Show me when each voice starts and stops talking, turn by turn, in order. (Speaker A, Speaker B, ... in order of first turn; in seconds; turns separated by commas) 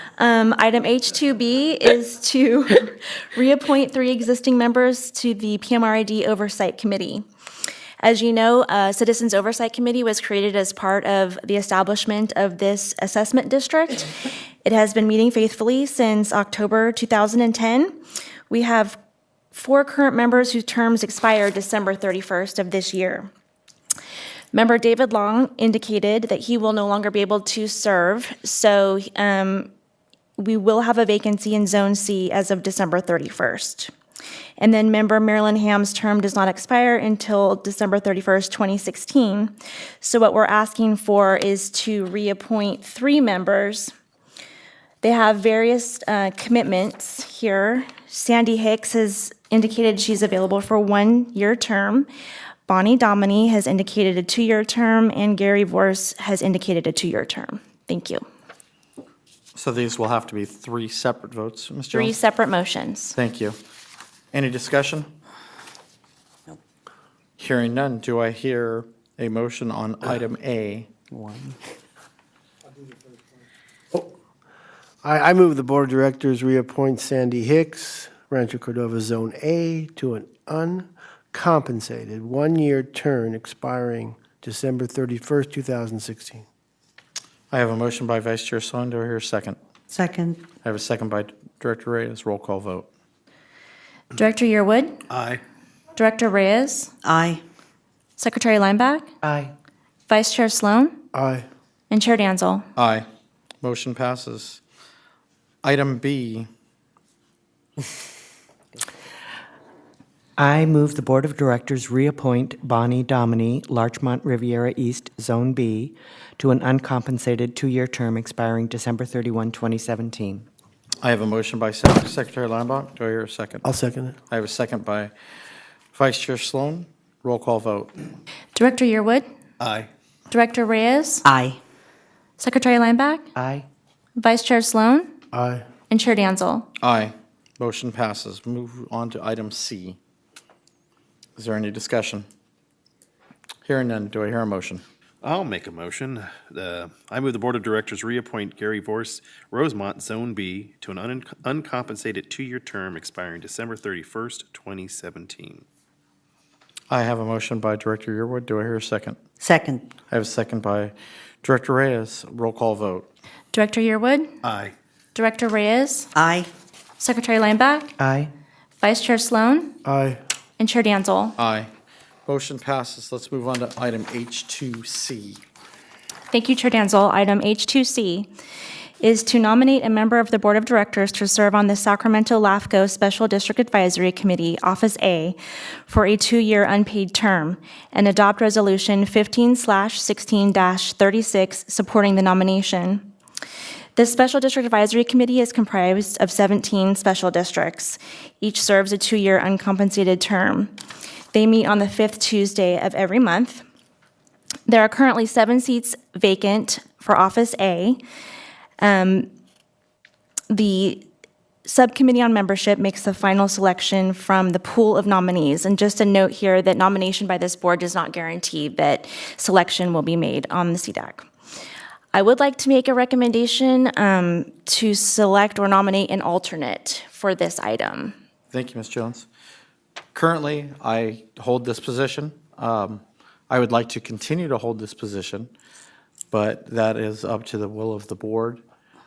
Speaker A: 0.2-7.2, Speaker A: 8.0-18.0, Speaker A: 18.5-19.0, Speaker A: 19.5-23.3, Speaker A: 24.5-29.7, Speaker A: 30.4-33.9, Speaker A: 34.6-43.9, Speaker A: 45.0-52.1, Speaker A: 52.7-58.2, Speaker B: 59.5-62.2, Speaker A: 61.9-63.2, Speaker B: 63.2-63.6, Speaker B: 64.3-65.1, Speaker B: 67.4-70.9, Speaker C: 71.1-71.5, Speaker D: 75.0-86.5, Speaker B: 87.5-89.6, Speaker C: 89.9-90.4, Speaker B: 90.6-92.9, Speaker A: 94.2-95.0, Speaker E: 95.1-95.4, Speaker A: 96.0-96.9, Speaker C: 97.0-97.4, Speaker A: 98.2-99.1, Speaker F: 99.2-99.5, Speaker A: 100.1-101.0, Speaker D: 101.1-101.5, Speaker A: 101.9-102.7, Speaker B: 102.8-103.1, Speaker B: 103.6-104.6, Speaker B: 105.6-106.5, Speaker F: 110.4-120.5, Speaker B: 121.0-123.7, Speaker D: 123.6-124.2, Speaker B: 124.3-125.1, Speaker B: 125.9-128.1, Speaker A: 128.6-129.3, Speaker E: 129.6-129.9, Speaker A: 130.3-131.2, Speaker C: 131.2-131.6, Speaker A: 132.4-133.3, Speaker F: 133.4-133.7, Speaker A: 134.2-135.1, Speaker D: 135.3-135.7, Speaker A: 135.9-136.7, Speaker B: 136.8-140.0, Speaker B: 141.4-142.3, Speaker B: 143.7-144.8, Speaker E: 145.2-155.6, Speaker B: 156.9-159.2, Speaker C: 159.4-159.9, Speaker B: 160.1-163.1, Speaker A: 163.5-164.3, Speaker E: 164.4-164.7, Speaker A: 165.1-166.1, Speaker C: 166.2-166.5, Speaker A: 167.0-167.9, Speaker F: 168.0-168.3, Speaker A: 168.8-169.8, Speaker D: 169.8-170.2, Speaker A: 170.6-171.4, Speaker B: 171.4-171.7, Speaker B: 172.3-175.4, Speaker A: 176.3-178.3, Speaker A: 179.0-185.4, Speaker A: 185.9-193.1, Speaker A: 194.0-200.7, Speaker A: 201.3-203.7, Speaker A: 204.7-208.0, Speaker A: 208.8-209.3, Speaker A: 210.5-211.1, Speaker A: 211.7-221.3, Speaker A: 222.1-228.2, Speaker B: 228.5-229.3, Speaker B: 230.1-235.5, Speaker B: 236.3-238.6